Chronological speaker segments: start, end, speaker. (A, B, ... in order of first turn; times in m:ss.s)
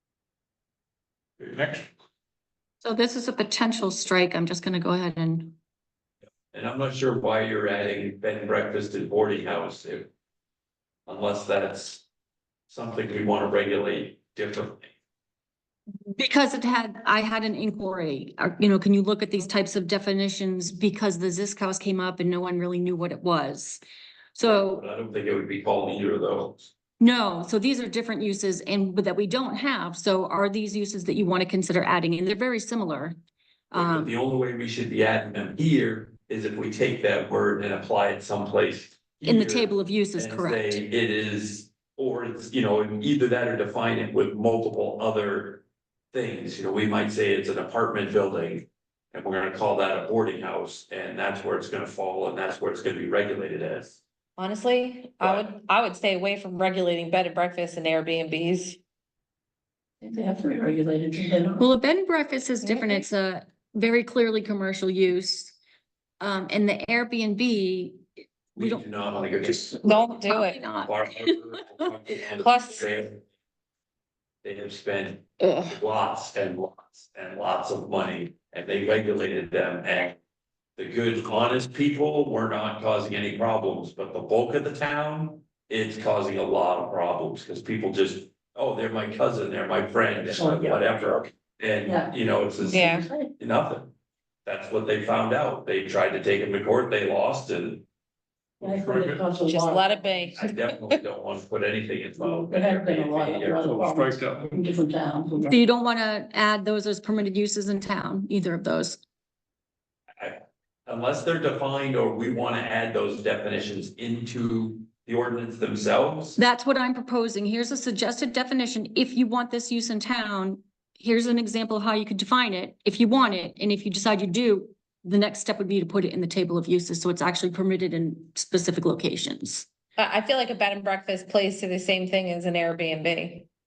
0:01.5-0:01.9 A
0:02.8-0:05.5 B
0:06.5-0:10.1 C
0:11.1-0:12.0 C
0:12.7-0:14.9 C
0:16.2-0:23.8 B
0:24.3-0:24.8 B
0:24.4-0:26.7 C
0:27.0-0:33.2 B
0:33.7-0:34.1 B
0:33.7-0:54.0 C
0:39.2-0:40.9 B
0:54.4-0:58.8 D
0:55.2-0:55.5 C
1:00.0-1:01.6 E
1:01.6-1:05.6 B
1:02.6-1:03.0 D
1:06.2-1:08.0 B
1:08.5-1:08.9 B
1:08.6-1:09.8 C
1:09.5-1:11.8 B
1:09.8-1:10.6 D
1:10.8-1:13.2 C
1:12.4-1:12.9 D
1:14.4-1:20.2 C
1:15.4-1:15.8 B
1:20.8-1:33.9 C
1:30.3-1:30.9 E
1:31.8-1:33.3 E
1:32.7-1:33.0 D
1:34.4-1:37.8 C
1:38.6-1:39.9 E
1:38.6-1:39.2 A
1:39.5-1:40.9 D
1:40.3-1:43.7 C
1:42.2-1:45.5 E
1:43.6-1:44.5 A
1:45.5-1:49.0 B
1:50.2-1:56.4 C
1:56.4-2:09.6 B
2:10.0-2:13.4 D